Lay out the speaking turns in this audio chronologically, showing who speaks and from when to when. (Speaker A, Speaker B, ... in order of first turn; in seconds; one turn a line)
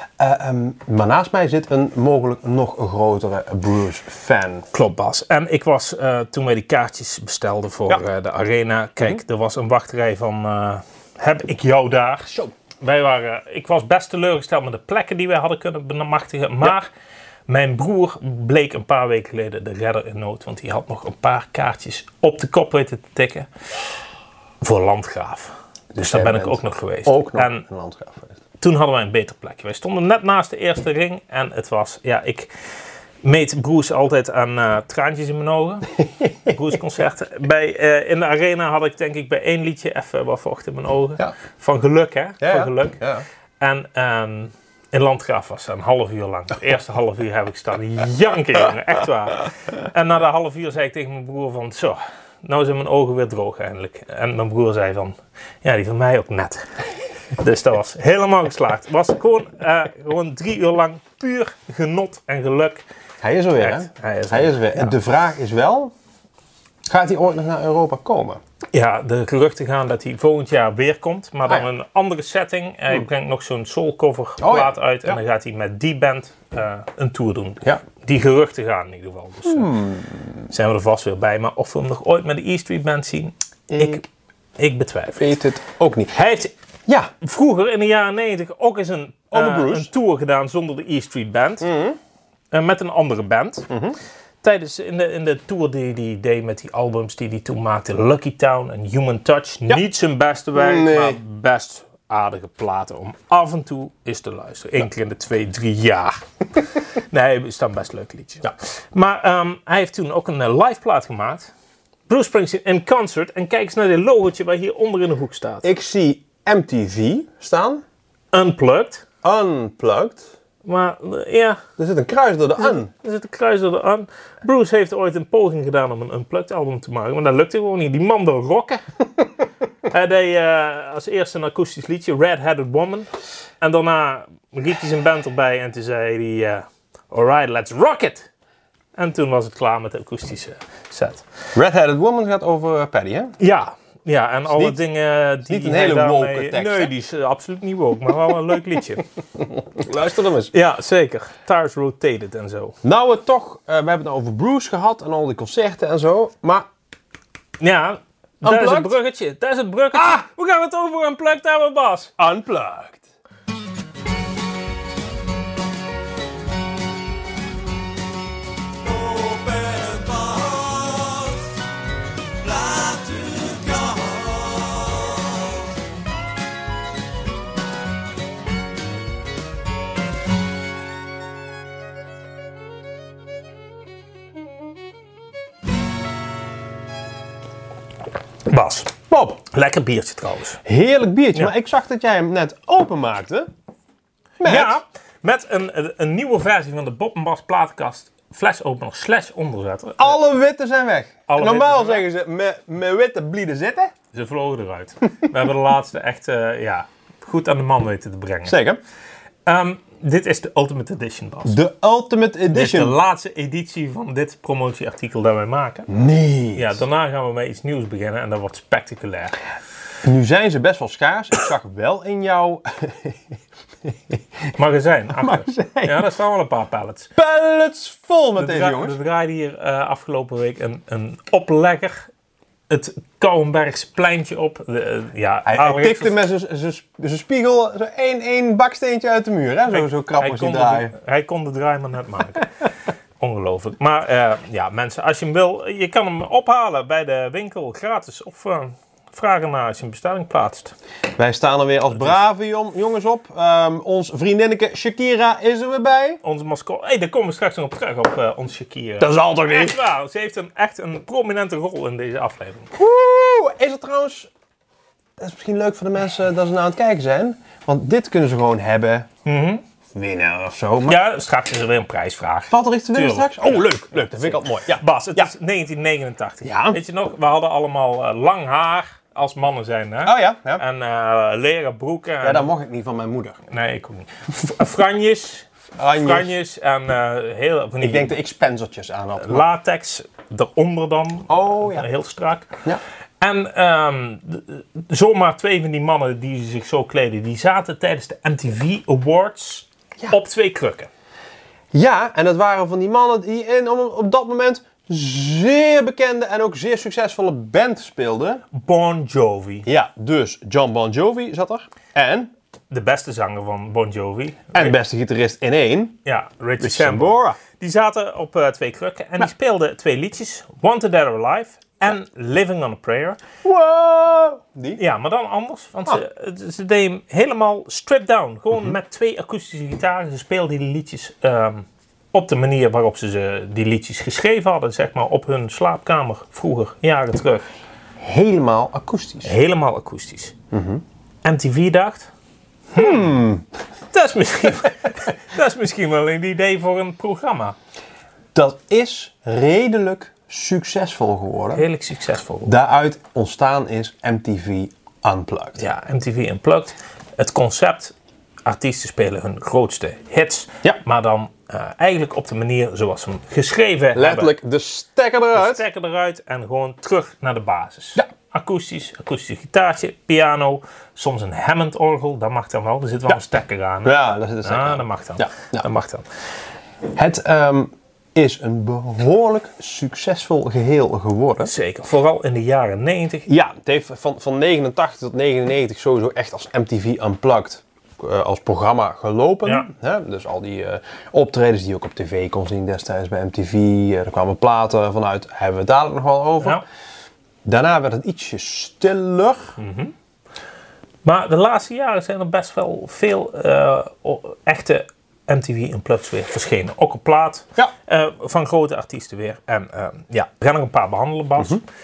Speaker A: 0.2-4.7
Speaker B: 4.7-16.9
Speaker B: 17.5-23.5
Speaker B: 24.6-27.6
Speaker A: 25.9-28.4
Speaker B: 28.6-32.5
Speaker B: 33.2-43.0
Speaker A: 42.4-43.2
Speaker B: 43.6-62.8
Speaker A: 63.2-65.9
Speaker B: 63.6-64.9
Speaker A: 66.8-68.4
Speaker B: 68.7-79.7
Speaker A: 74.4-75.2
Speaker A: 79.5-80.4
Speaker B: 80.5-84.0
Speaker A: 83.7-84.0
Speaker B: 84.6-85.3
Speaker A: 85.2-86.1
Speaker B: 86.1-86.5
Speaker A: 86.9-87.1
Speaker B: 87.2-91.7
Speaker A: 89.3-89.9
Speaker A: 91.6-92.0
Speaker B: 92.5-93.7
Speaker A: 93.7-94.0
Speaker B: 94.4-106.2
Speaker A: 100.5-101.2
Speaker B: 107.1-111.5
Speaker B: 112.1-115.7
Speaker A: 115.6-117.8
Speaker B: 118.3-119.0
Speaker A: 119.2-120.3
Speaker B: 120.6-121.6
Speaker A: 121.8-122.9
Speaker B: 122.6-128.8
Speaker B: 129.9-133.1
Speaker B: 133.6-138.3
Speaker B: 138.9-141.2
Speaker A: 141.5-143.3
Speaker B: 143.4-149.0
Speaker A: 144.5-144.8
Speaker A: 145.4-146.9
Speaker A: 149.4-150.5
Speaker B: 150.5-152.8
Speaker A: 152.8-156.7
Speaker B: 157.6-162.1
Speaker A: 158.4-158.9
Speaker A: 159.9-160.2
Speaker A: 162.2-163.0
Speaker A: 169.0-171.4
Speaker A: 172.4-174.9
Speaker B: 188.5-190.6
Speaker A: 189.1-189.4
Speaker A: 190.6-193.5
Speaker A: 194.4-194.8
Speaker B: 194.4-200.2
Speaker A: 200.0-203.9
Speaker B: 201.3-202.0
Speaker B: 204.1-208.6
Speaker A: 208.4-208.8
Speaker B: 209.4-211.6
Speaker A: 211.4-212.9
Speaker B: 212.5-215.9
Speaker A: 215.9-216.8
Speaker B: 216.5-219.4
Speaker A: 220.0-223.2
Speaker A: 223.8-224.2
Speaker B: 224.5-227.1
Speaker A: 225.2-226.1
Speaker A: 227.2-228.9
Speaker B: 228.3-232.1
Speaker B: 232.7-236.1
Speaker A: 235.4-240.9
Speaker B: 239.7-242.5
Speaker B: 243.2-250.7
Speaker A: 251.2-256.2
Speaker B: 251.9-252.2
Speaker B: 256.2-262.7
Speaker A: 259.0-259.8
Speaker A: 262.7-264.3
Speaker A: 265.2-269.1
Speaker B: 269.2-269.6
Speaker A: 269.9-271.0
Speaker B: 270.9-282.5
Speaker A: 272.5-275.3
Speaker A: 276.4-276.8
Speaker A: 280.0-280.6
Speaker A: 282.2-283.4
Speaker B: 283.5-288.1
Speaker A: 285.8-286.3
Speaker A: 287.8-289.4
Speaker B: 289.2-292.6
Speaker A: 291.3-291.9
Speaker B: 293.2-300.9
Speaker A: 301.7-308.4
Speaker B: 308.5-309.7
Speaker A: 309.6-312.3
Speaker B: 312.7-314.8
Speaker A: 314.5-315.9
Speaker B: 316.0-323.2
Speaker A: 316.6-317.4
Speaker A: 323.4-324.8
Speaker B: 324.8-337.5
Speaker A: 338.0-339.3
Speaker B: 339.2-340.4
Speaker A: 340.5-340.8
Speaker B: 341.2-342.1
Speaker B: 342.7-343.1
Speaker A: 342.7-343.5
Speaker B: 343.9-347.6
Speaker A: 348.3-351.6
Speaker B: 351.5-352.5
Speaker A: 352.4-355.6
Speaker B: 355.6-357.9
Speaker B: 358.4-364.3
Speaker A: 363.9-365.6
Speaker B: 365.3-376.0
Speaker A: 373.8-375.6
Speaker A: 376.9-381.5
Speaker B: 381.4-383.3
Speaker A: 383.3-396.6
Speaker A: 397.4-399.6
Speaker B: 399.6-399.9
Speaker B: 401.0-411.6